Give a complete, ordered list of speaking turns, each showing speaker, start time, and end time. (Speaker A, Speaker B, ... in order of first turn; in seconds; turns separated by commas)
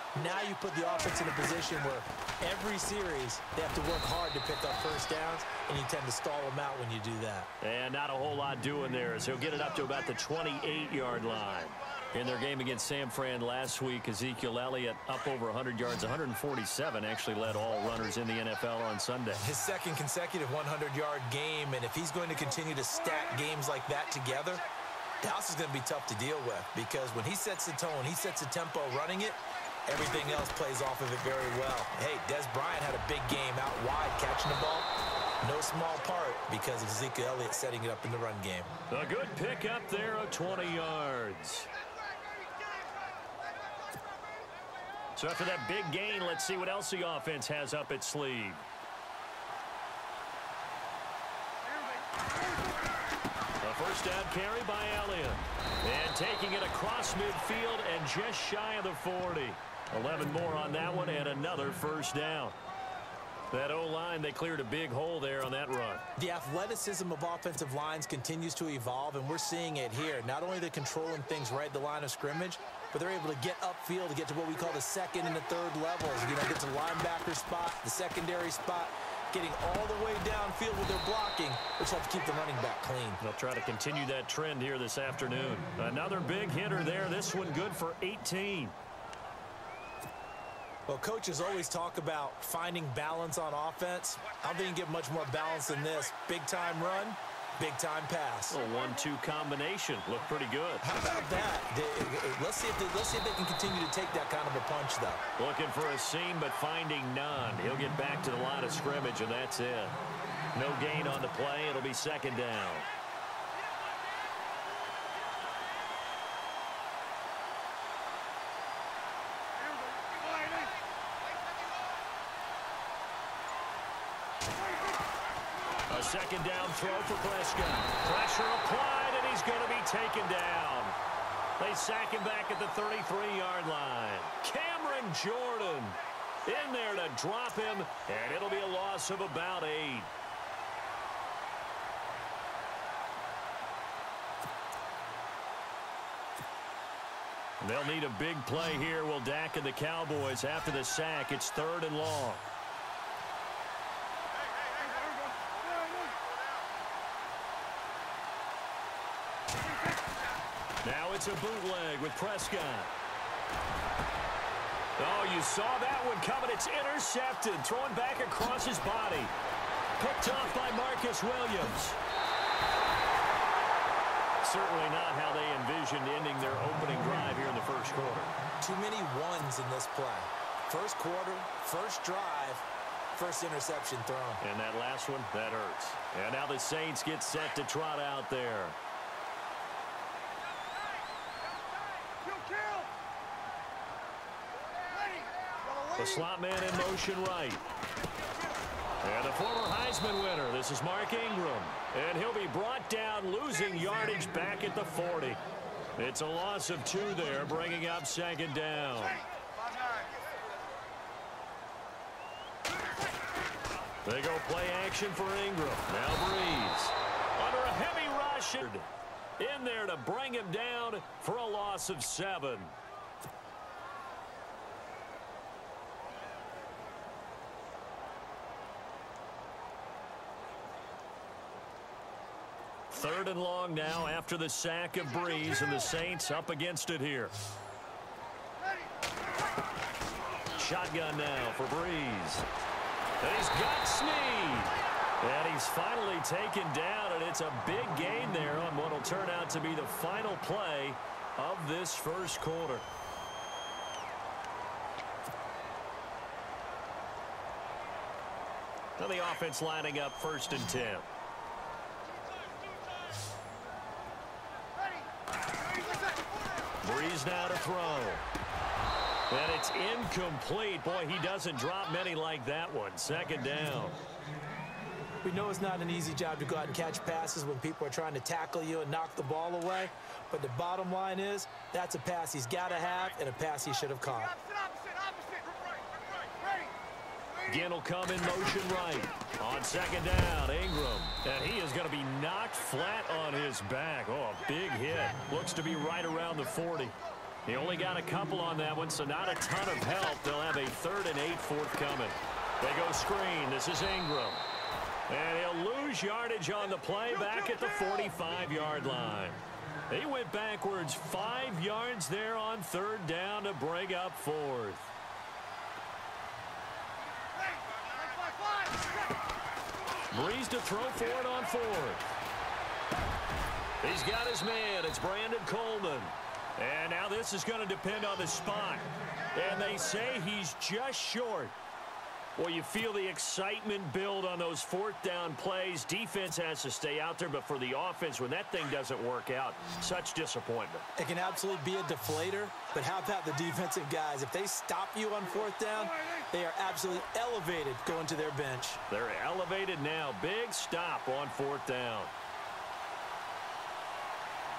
Speaker A: 0.1-7.5, Speaker B: 7.6-19.5, Speaker A: 19.4-24.6, Speaker A: 25.2-34.9, Speaker A: 35.4-38.7, Speaker B: 38.9-41.7, Speaker B: 45.2-48.6, Speaker B: 53.6-62.6, Speaker B: 63.5-66.0, Speaker A: 66.2-83.2, Speaker B: 83.2-88.8, Speaker A: 90.9-98.6, Speaker B: 98.5-100.8, Speaker A: 100.8-105.2, Speaker B: 105.4-110.0, Speaker B: 110.5-112.9, Speaker B: 125.9-131.0, Speaker B: 131.6-140.1, Speaker B: 147.6-152.4, Speaker B: 160.8-162.9, Speaker B: 165.0-169.3, Speaker B: 170.0-172.0, Speaker B: 174.4-178.3, Speaker A: 178.6-184.4, Speaker B: 184.4-188.8, Speaker B: 195.9-197.6, Speaker B: 199.0-205.4, Speaker B: 206.0-209.2, Speaker B: 214.1-222.8, Speaker B: 232.9-237.3, Speaker B: 240.6-242.5, Speaker B: 243.2-252.9, Speaker B: 259.0-261.1, Speaker B: 266.8-268.2, Speaker B: 269.3-274.0, Speaker A: 275.2-284.4, Speaker B: 287.4-304.5, Speaker B: 305.1-314.9, Speaker B: 320.1-322.0, Speaker B: 323.8-331.6, Speaker B: 332.4-340.9, Speaker A: 341.0-348.8, Speaker B: 348.9-352.1